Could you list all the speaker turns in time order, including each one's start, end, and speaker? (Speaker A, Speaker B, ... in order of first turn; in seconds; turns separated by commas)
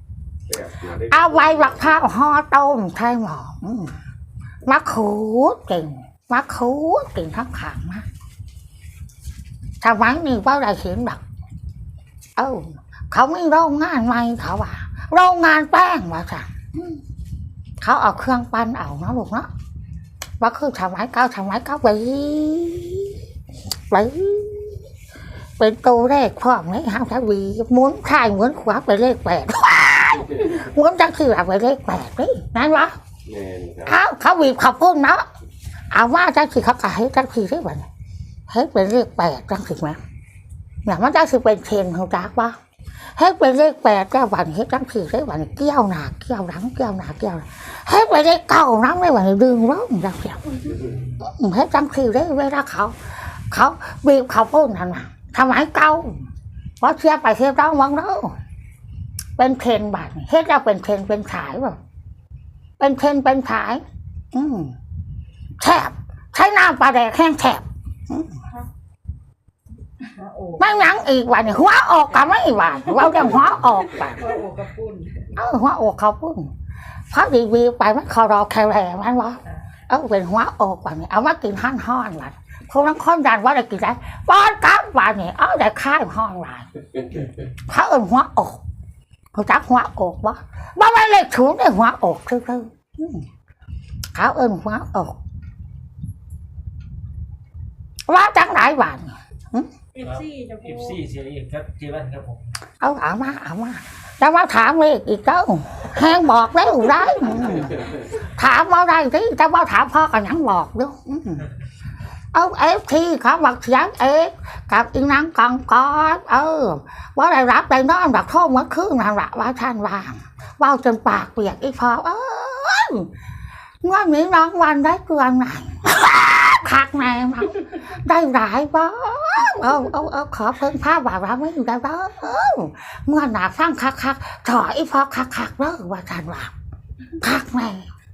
Speaker A: 0.5-2.0, Speaker B: 1.1-3.9, Speaker B: 4.7-8.1, Speaker B: 9.8-11.2, Speaker B: 12.3-17.0, Speaker B: 17.8-19.5, Speaker B: 20.4-23.2, Speaker B: 23.9-24.8, Speaker B: 25.6-33.0, Speaker A: 33.3-33.9, Speaker B: 33.9-35.2, Speaker B: 35.9-37.9, Speaker B: 38.5-40.0, Speaker B: 40.8-42.5, Speaker B: 43.1-50.6, Speaker B: 51.2-52.9, Speaker B: 53.5-56.3, Speaker B: 56.8-58.3, Speaker B: 59.4-61.8, Speaker B: 62.8-64.7, Speaker B: 65.6-68.3, Speaker C: 70.2-70.8, Speaker B: 70.6-74.3, Speaker C: 74.1-75.2, Speaker B: 75.3-76.5, Speaker B: 77.1-86.7, Speaker B: 87.7-88.6, Speaker B: 89.3-93.2, Speaker B: 94.1-95.2, Speaker B: 98.1-99.7, Speaker C: 99.9-101.0, Speaker D: 100.0-102.5, Speaker B: 102.8-111.5, Speaker B: 112.3-123.1, Speaker B: 123.8-136.5, Speaker B: 137.2-137.9